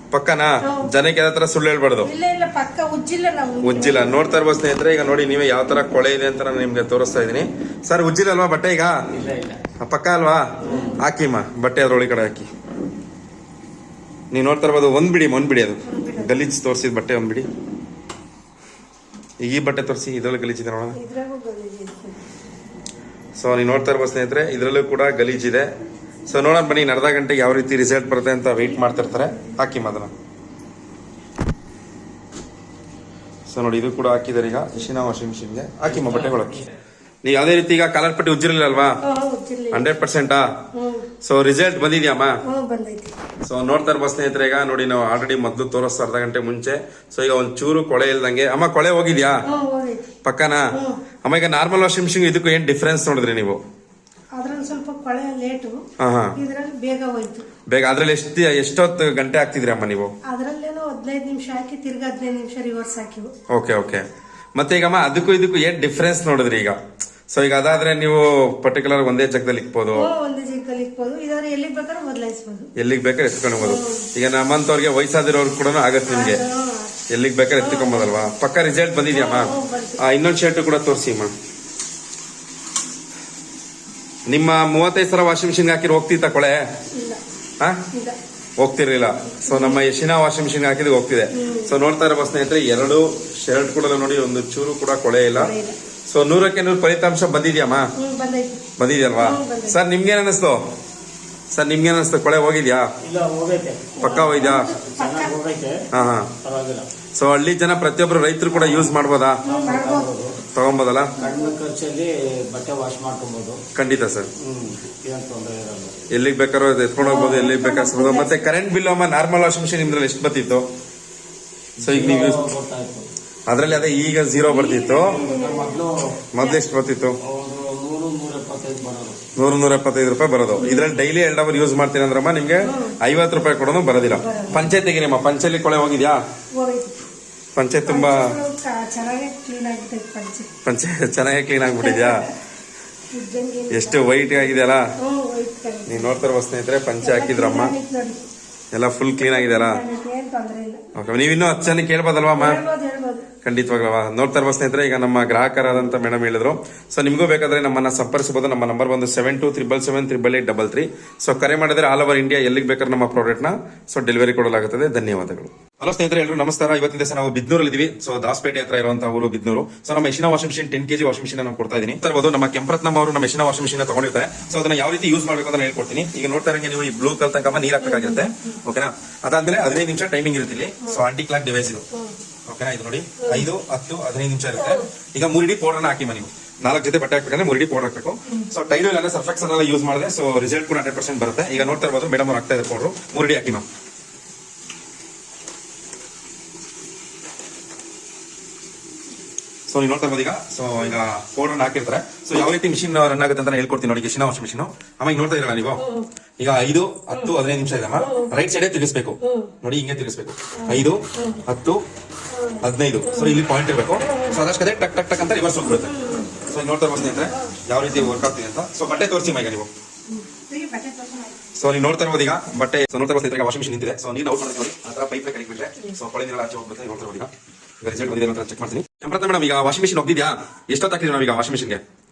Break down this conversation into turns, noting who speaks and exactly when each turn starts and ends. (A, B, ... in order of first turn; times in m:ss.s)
0:00.1-0:02.1 A
0:02.0-0:04.2 B
0:03.6-0:09.0 A
0:09.1-0:09.6 C
0:09.8-0:12.5 A
0:10.6-0:11.0 B
0:10.6-0:11.0 C
0:14.3-0:17.5 A
0:15.9-0:16.5 B
0:19.4-0:21.0 A
0:21.0-0:22.2 B
0:23.4-0:25.7 A
0:26.3-0:30.1 A
0:28.6-0:29.6 B
0:33.5-0:36.6 A
0:35.9-0:36.6 C
0:37.2-0:39.0 A
0:39.0-0:39.9 B
0:39.7-0:40.5 A
0:40.8-0:41.1 B
0:41.2-0:42.4 A
0:42.5-0:43.1 B
0:43.4-0:49.4 A
0:49.5-0:50.1 B
0:50.2-0:50.7 A
0:50.7-0:51.0 B
0:51.2-0:53.6 A
0:54.4-0:55.8 B
0:56.0-0:56.4 A
0:56.4-0:57.5 B
0:57.7-1:00.1 A
1:00.3-1:03.3 B
1:03.5-1:04.0 A
1:04.6-1:06.8 A
1:07.3-1:10.1 A
1:09.9-1:12.7 B
1:12.8-1:16.4 A
1:13.6-1:14.1 B
1:16.1-1:17.0 B
1:17.1-1:21.3 A
1:17.6-1:18.3 B
1:19.1-1:20.0 B
1:24.3-1:26.6 A
1:27.0-1:27.2 B
1:28.6-1:35.5 A
1:29.4-1:29.8 B
1:31.4-1:31.7 B
1:35.4-1:35.8 B
1:36.1-1:37.9 A
1:38.0-1:38.6 B
1:38.8-1:40.6 A
1:39.2-1:39.8 B
1:41.5-1:42.9 A
1:43.0-1:45.8 C
1:44.0-1:44.7 A
1:44.0-1:45.4 B
1:45.9-1:46.3 A
1:46.4-1:46.9 C
1:47.2-1:49.4 A
1:48.5-1:50.3 C
1:49.4-1:50.1 B
1:50.5-1:51.2 A
1:51.2-1:51.6 B
1:51.2-1:53.6 C
1:53.8-1:54.3 A
1:54.4-1:56.1 C
1:56.1-2:00.6 A
1:57.0-1:58.5 B
2:01.8-2:02.5 A
2:01.8-2:03.1 C
2:03.5-2:05.2 A
2:04.5-2:06.6 B
2:04.8-2:06.0 C
2:06.3-2:07.2 A
2:07.2-2:09.2 C
2:09.4-2:16.2 A
2:10.6-2:11.0 B
2:12.6-2:13.0 B
2:14.0-2:14.7 B
2:16.6-2:17.0 B
2:17.6-2:18.3 A
2:17.9-2:20.5 B
2:20.6-2:22.2 A
2:21.6-2:22.3 B
2:23.1-2:26.1 B
2:23.7-2:24.8 A
2:25.9-2:27.7 A
2:27.0-2:28.3 B
2:28.7-2:29.8 A
2:29.2-2:30.8 B
2:31.0-2:32.6 A
2:32.4-2:33.3 B
2:33.4-3:01.9 A
2:57.8-2:58.3 B
3:02.5-3:13.6 A
3:04.6-3:04.9 B
3:19.7-3:25.8 A
3:25.8-3:26.1 B
3:26.4-3:31.8 A
3:28.0-3:28.3 B
3:29.2-3:29.5 B
3:30.6-3:31.4 B
3:32.3-3:33.4 B
3:32.6-3:35.9 A
3:34.1-3:34.4 B
3:35.6-3:36.3 B
3:36.4-3:39.7 A
3:37.0-3:38.1 B
3:40.1-3:41.4 B
3:41.6-3:51.8 A